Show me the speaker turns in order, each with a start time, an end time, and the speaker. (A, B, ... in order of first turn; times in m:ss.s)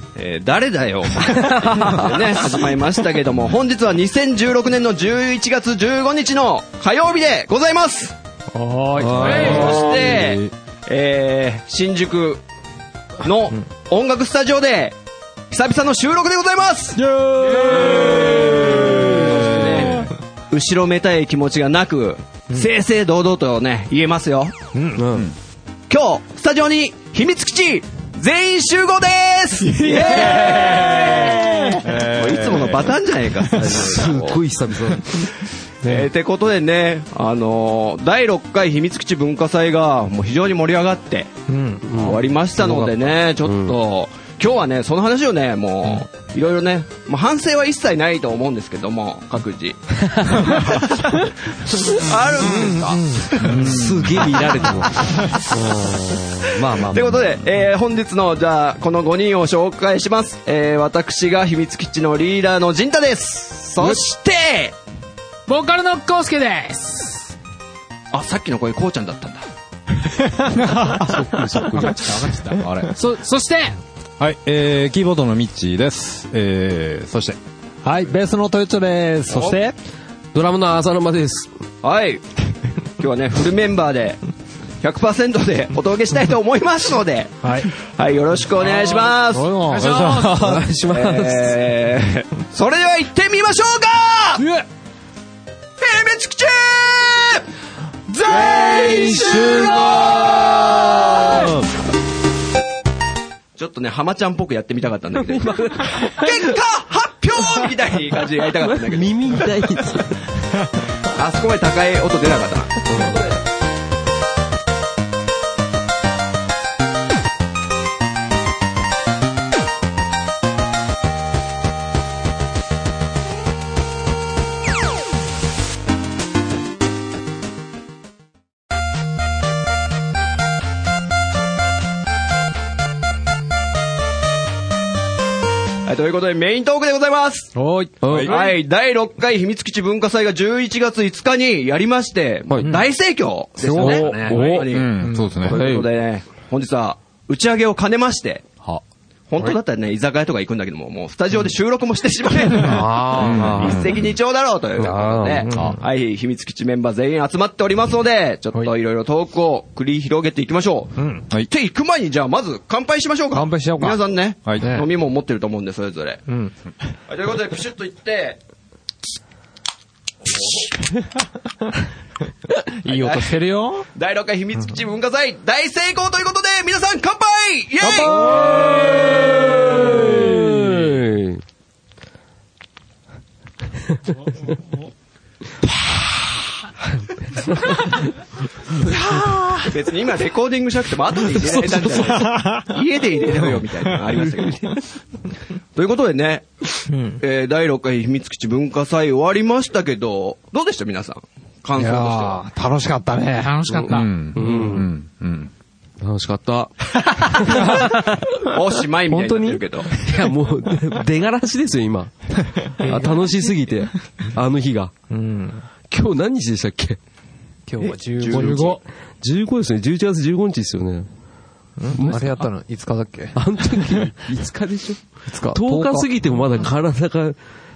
0:00.2-0:08.2 A
0:08.5-0:09.9 B
0:09.0-0:10.5 C
0:09.2-0:09.8 D
0:09.2-0:12.4 A
0:13.2-0:15.0 A
0:15.5-0:17.0 A
0:17.0-0:19.2 B
0:18.5-0:24.7 A
0:19.6-0:20.0 E
0:24.7-0:25.0 B
0:25.0-0:25.3 C
0:25.9-0:34.4 A
0:29.6-0:31.8 B
0:31.8-0:33.0 E
0:33.6-0:35.2 C
0:35.8-0:36.1 B
0:35.8-0:41.4 A
0:41.5-0:42.9 B
0:41.9-0:42.8 C
0:42.0-0:53.8 A
0:43.4-0:43.8 C
0:52.5-0:53.4 B
0:53.4-0:54.4 E
0:53.5-0:56.8 C
0:56.7-0:57.3 E
0:56.7-1:04.8 A
1:05.5-1:07.3 D
1:08.1-1:09.5 A
1:10.1-1:11.9 B
1:10.8-1:12.3 C
1:11.8-1:13.8 D
1:12.5-1:13.0 E
1:14.2-1:17.4 E
1:17.8-1:19.8 B
1:19.3-1:19.6 A
1:20.3-1:21.5 C
1:21.8-1:22.4 A
1:23.0-1:24.2 A
1:24.8-1:29.5 A
1:27.4-1:27.7 B
1:28.8-1:30.2 B
1:29.7-1:30.4 D
1:29.7-1:30.7 E
1:30.2-1:31.6 C
1:30.8-1:34.4 A
1:34.4-1:34.7 B
1:35.8-1:37.5 A
1:38.2-1:41.5 A
1:38.2-1:41.5 B
1:38.6-1:39.9 C
1:41.3-1:41.5 C
1:43.6-1:49.5 A
1:45.2-1:46.3 C
1:48.6-1:50.4 C
1:51.0-1:53.3 A
1:52.8-1:53.3 C
2:15.8-2:17.6 A
2:17.6-2:18.4 B
2:18.0-2:18.4 C
2:18.1-2:18.4 E
2:18.2-2:28.5 A
2:22.5-2:22.8 C
2:23.6-2:25.4 B
2:23.7-2:24.8 C
2:24.5-2:25.6 E
2:25.4-2:25.9 C
2:29.3-2:46.2 A
2:32.5-2:34.0 C
2:32.6-2:34.1 E
2:34.8-2:35.5 C
2:35.5-2:35.8 B
2:35.5-2:35.8 E
2:41.0-2:41.3 B
2:43.3-2:44.0 B
2:44.6-2:44.9 B
2:46.3-2:46.5 B
2:47.1-2:48.4 A
2:52.6-2:53.9 B
2:52.9-2:53.4 A
2:53.9-3:00.3 A
2:57.8-2:59.1 B
2:58.2-3:01.4 C
2:59.7-3:00.3 B
3:07.4-3:08.0 C
3:08.8-3:14.8 A
3:09.2-3:09.7 B
3:12.0-3:12.7 B
3:15.8-3:22.4 A
3:16.9-3:17.2 B
3:21.8-3:23.8 B
3:23.4-3:24.1 D
3:23.8-3:24.9 C
3:23.8-3:25.5 E
3:26.0-3:28.1 C
3:27.4-3:28.1 B
3:27.5-3:29.9 A
3:29.1-3:30.3 B
3:30.0-3:34.9 C
3:32.5-3:33.3 B
3:35.1-3:35.7 B
3:35.9-3:37.0 C
3:37.7-3:38.8 B
3:37.8-3:38.8 A
3:38.3-3:38.8 D
3:38.4-3:41.1 C
3:41.8-3:44.1 B
3:41.9-3:42.5 C
3:43.3-3:47.4 C
3:45.3-3:46.1 B